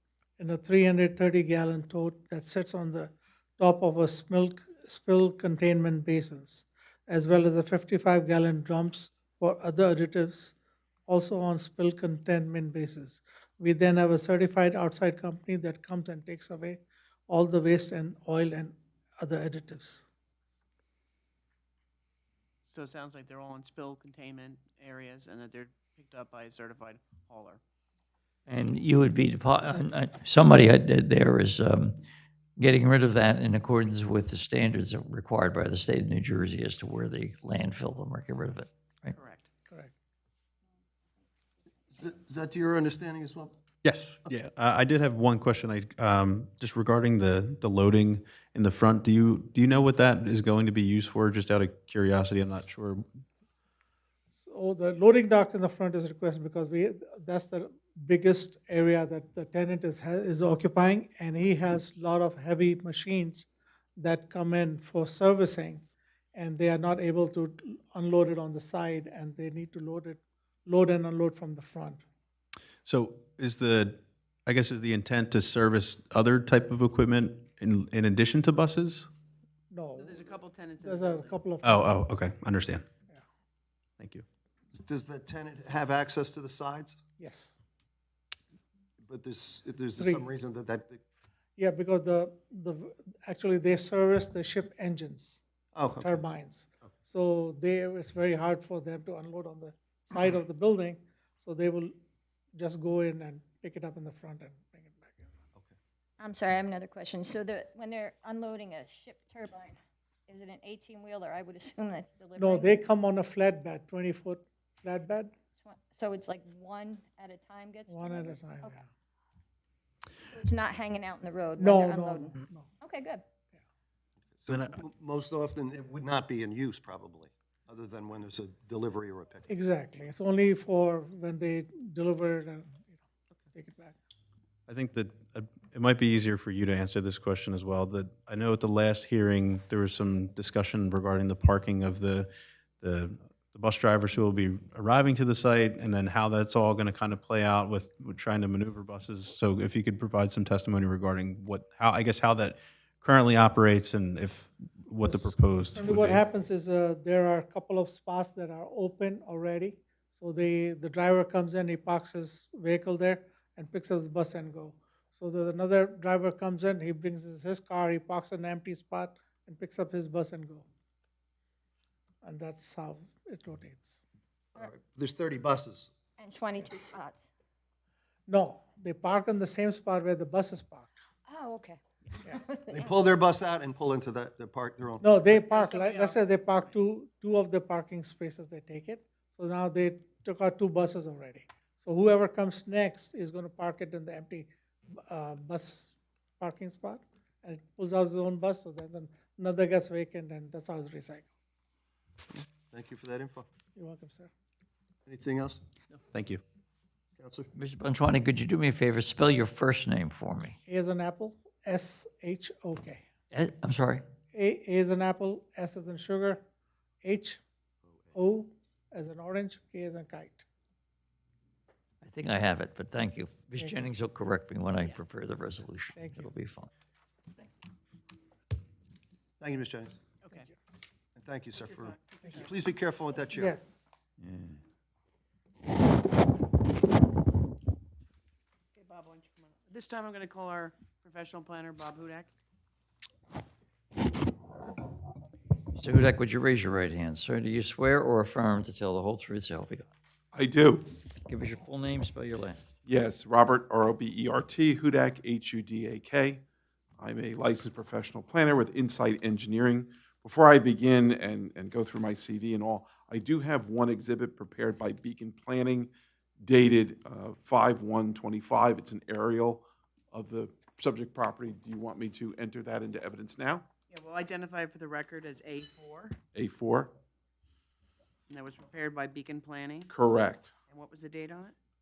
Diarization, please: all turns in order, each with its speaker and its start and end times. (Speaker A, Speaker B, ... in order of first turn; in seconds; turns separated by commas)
Speaker A: 0.4-10.5, Speaker A: 11.1-20.0, Speaker B: 22.6-27.6, Speaker C: 28.5-31.9, Speaker C: 32.6-39.1, Speaker B: 39.1-39.5, Speaker A: 39.7-39.9, Speaker D: 41.9-43.5, Speaker E: 43.8-53.0, Speaker A: 54.4-65.8, Speaker A: 66.3-72.0, Speaker E: 72.8-79.1, Speaker A: 79.7-80.2, Speaker B: 80.0-81.4, Speaker A: 80.8-82.0, Speaker E: 81.6-82.8, Speaker E: 84.0-84.2, Speaker D: 84.7-87.0, Speaker A: 87.2-87.6, Speaker D: 89.0-91.0, Speaker A: 91.6-95.4, Speaker D: 95.7-96.2, Speaker A: 96.0-102.0, Speaker A: 102.5-105.3, Speaker F: 106.2-112.7, Speaker A: 112.4-115.3, Speaker F: 115.6-118.8, Speaker A: 117.9-118.9, Speaker F: 120.3-123.2, Speaker A: 121.6-122.7, Speaker D: 124.4-129.5, Speaker E: 124.5-124.8, Speaker A: 129.5-133.9, Speaker E: 134.7-156.2, Speaker A: 155.0-170.7, Speaker A: 172.2-174.0, Speaker D: 174.5-175.9, Speaker F: 176.2-177.2, Speaker A: 178.3-180.9, Speaker F: 181.3-182.8, Speaker D: 182.7-185.1, Speaker A: 185.0-201.3, Speaker B: 185.3-186.7, Speaker D: 202.7-203.5, Speaker A: 203.8-204.3, Speaker D: 205.1-205.6, Speaker E: 206.1-206.4, Speaker D: 207.2-207.5, Speaker C: 207.5-210.6, Speaker A: 210.7-213.0, Speaker C: 213.3-214.0, Speaker A: 214.3-216.4, Speaker A: 217.0-217.4, Speaker A: 218.1-220.4, Speaker C: 222.0-226.7, Speaker A: 225.9-226.3, Speaker D: 229.4-230.0, Speaker B: 230.2-230.5, Speaker D: 231.2-233.5, Speaker B: 231.6-232.6, Speaker A: 233.3-233.9, Speaker C: 234.2-234.6, Speaker B: 238.8-242.3, Speaker C: 245.7-249.9, Speaker G: 250.3-250.8, Speaker C: 251.2-252.6, Speaker G: 252.8-256.4, Speaker G: 257.0-273.7, Speaker B: 273.9-276.2, Speaker G: 276.3-276.9, Speaker B: 278.3-279.9, Speaker G: 279.9-280.5, Speaker B: 280.7-281.6